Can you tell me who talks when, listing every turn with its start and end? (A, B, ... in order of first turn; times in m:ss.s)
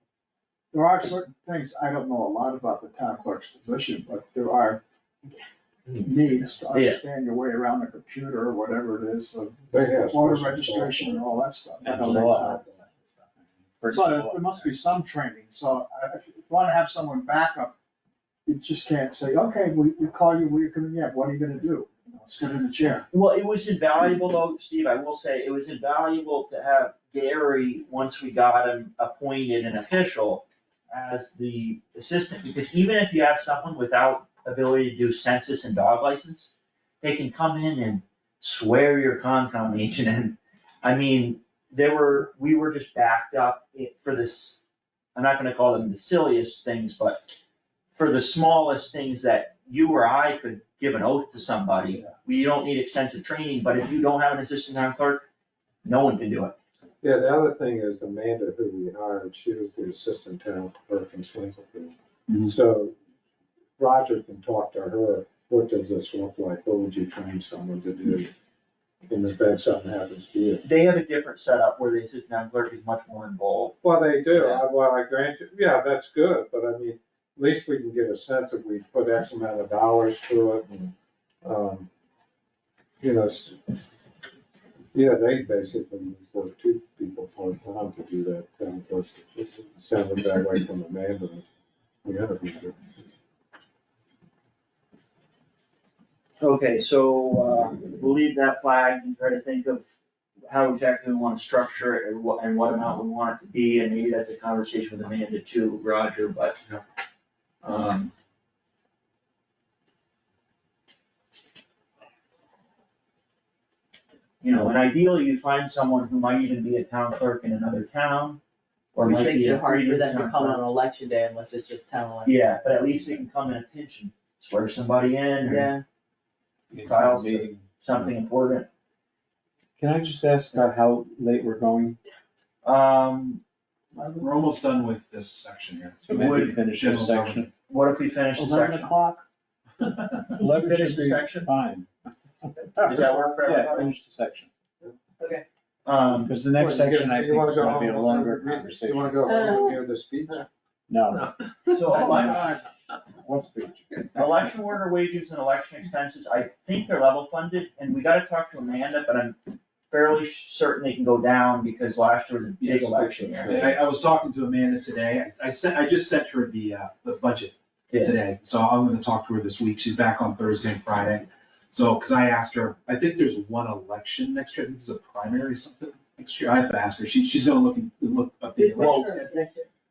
0:00.7-0:04.8 A
0:06.0-0:12.8 A
0:06.7-0:07.0 B
0:09.7-0:11.2 C
0:11.8-0:14.7 D
0:12.0-0:12.5 C
0:13.9-0:17.7 A
0:18.5-0:23.0 A
0:23.1-0:44.6 B
0:45.1-0:47.2 B
0:47.9-0:55.2 B
0:55.8-0:56.6 B
0:57.0-1:03.0 C
1:03.8-1:08.3 C
1:09.0-1:10.6 C
1:10.6-1:13.8 B
1:13.8-1:20.7 C
1:14.3-1:14.6 B
1:21.4-1:21.9 C
1:23.0-1:23.8 C
1:24.9-1:31.4 C
1:32.0-1:32.9 C
1:36.4-1:39.9 B
1:40.5-1:46.6 B
1:47.6-1:48.1 B
1:54.4-1:58.4 B
1:58.9-2:00.6 B
1:59.0-2:02.7 E
2:02.2-2:05.7 B
2:05.5-2:05.8 E
2:06.7-2:08.1 D
2:06.7-2:08.7 B
2:09.8-2:12.0 D
2:12.6-2:13.4 B
2:14.2-2:17.5 F
2:16.1-2:17.5 D
2:16.1-2:16.6 B
2:17.7-2:18.9 B
2:18.4-2:19.2 A
2:20.3-2:21.9 D
2:20.4-2:21.5 B
2:22.4-2:24.5 D
2:22.8-2:24.0 B
2:25.2-2:25.4 E
2:25.8-2:26.3 B
2:26.2-2:29.3 D
2:26.6-2:30.5 C
2:29.2-2:29.8 E
2:30.9-2:34.4 D
2:31.7-2:32.5 B
2:34.1-2:39.4 B
2:39.9-2:43.6 B
2:42.6-2:59.3 F
2:47.9-2:48.2 B
2:58.6-2:59.7 E
2:58.8-2:59.4 B